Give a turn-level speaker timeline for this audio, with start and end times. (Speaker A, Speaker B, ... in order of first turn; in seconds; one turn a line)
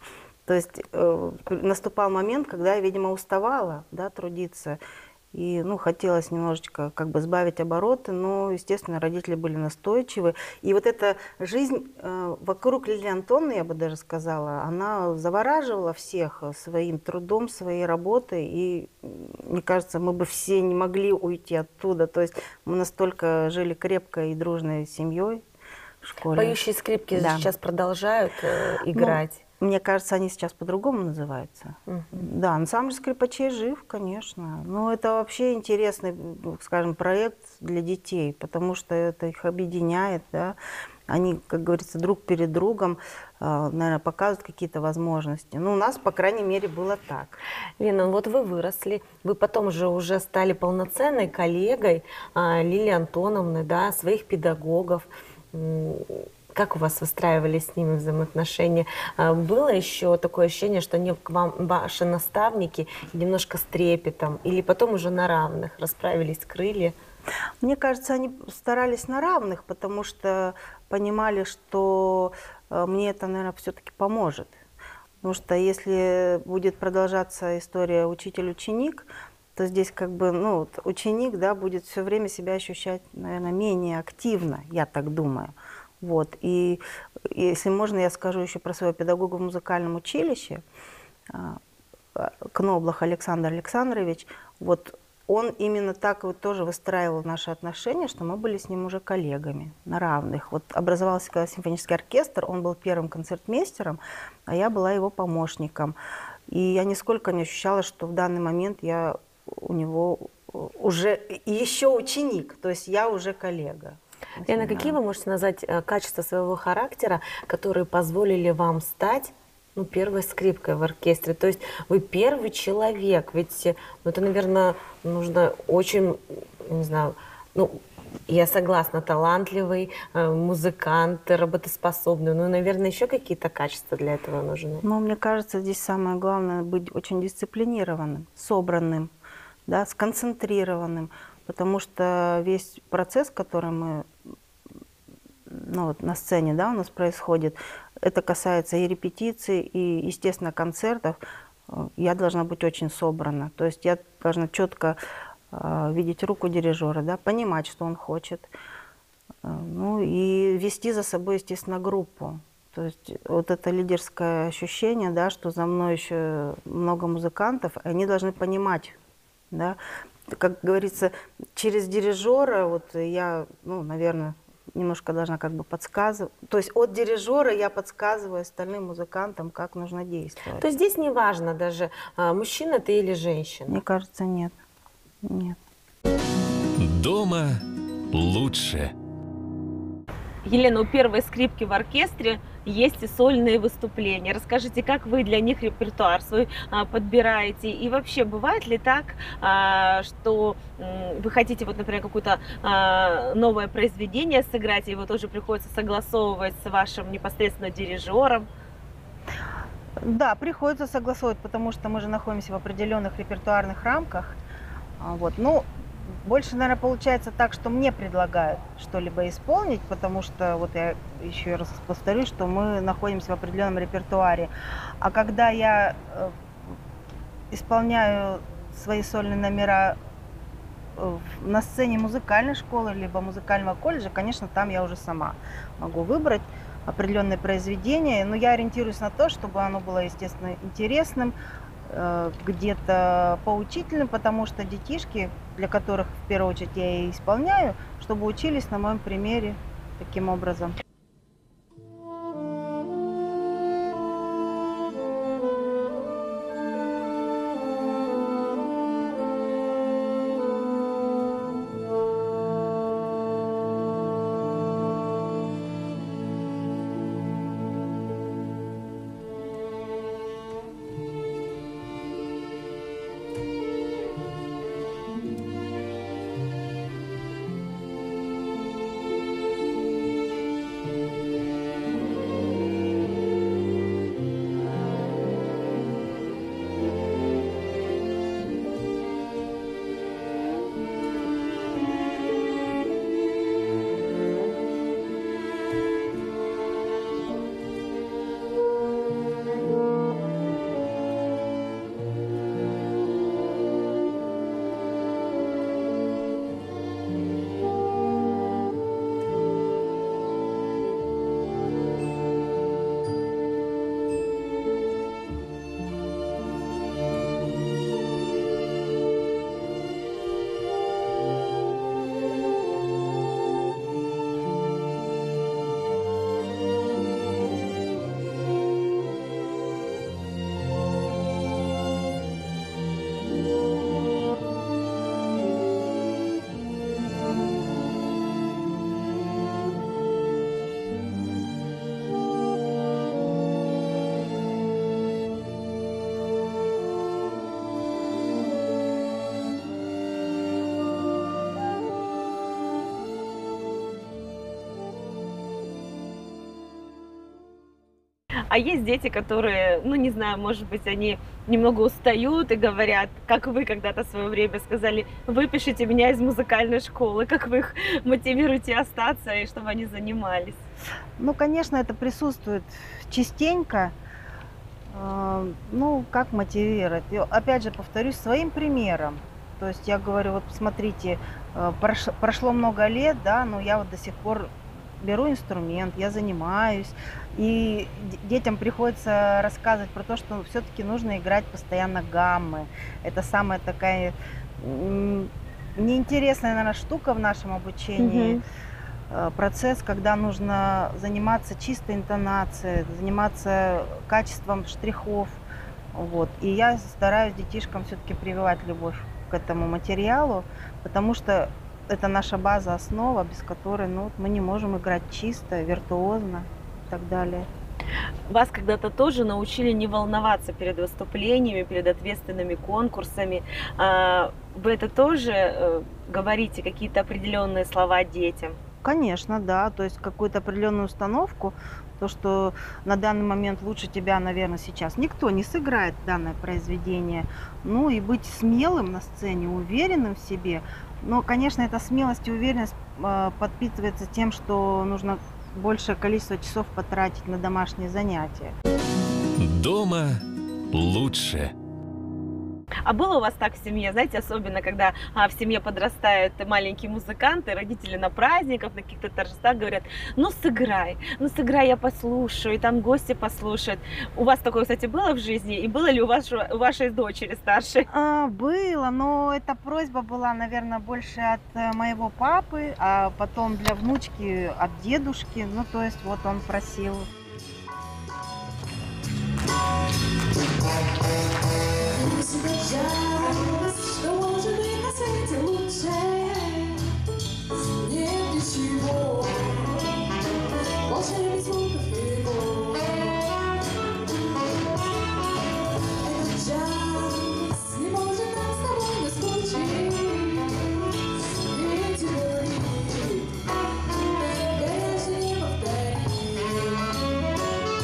Speaker A: 0.5-4.8
Speaker A: 5.3-25.4
Speaker A: 26.0-26.6
Speaker B: 26.3-29.4
Speaker A: 27.1-27.5
Speaker A: 28.9-40.6
Speaker B: 31.9-32.2
Speaker A: 41.1-47.4
Speaker B: 47.8-66.9
Speaker A: 67.6-74.6
Speaker A: 75.2-90.6
Speaker A: 91.3-91.6
Speaker A: 92.1-106.0
Speaker A: 106.5-115.0
Speaker B: 114.5-134.8
Speaker A: 134.8-139.1
Speaker A: 139.7-144.1
Speaker A: 145.5-155.0
Speaker A: 155.5-158.5
Speaker A: 159.4-169.0
Speaker A: 169.5-180.6
Speaker B: 180.6-183.8
Speaker A: 183.7-184.5
Speaker A: 185.2-185.6
Speaker C: 186.8-187.6
Speaker C: 188.1-188.9
Speaker B: 190.4-208.5
Speaker A: 210.0-214.4
Speaker A: 215.0-215.7
Speaker A: 216.2-226.4
Speaker A: 227.5-230.0
Speaker A: 230.9-241.3
Speaker A: 241.8-250.8
Speaker B: 358.5-370.6
Speaker A: 371.2-373.9
Speaker A: 374.9-398.4
Speaker B: 398.0-398.4
Speaker A: 399.1-405.4
Speaker A: 405.9-417.5
Speaker B: 418.3-428.6
Speaker A: 428.8-448.5
Speaker C: 449.4-451.5
Speaker B: 452.8-467.9
Speaker A: 467.9-477.1
Speaker D: 481.9-486.8
Speaker D: 487.8-489.7
Speaker D: 490.9-493.1
Speaker D: 496.0-500.7
Speaker D: 501.5-503.4
Speaker D: 504.5-506.9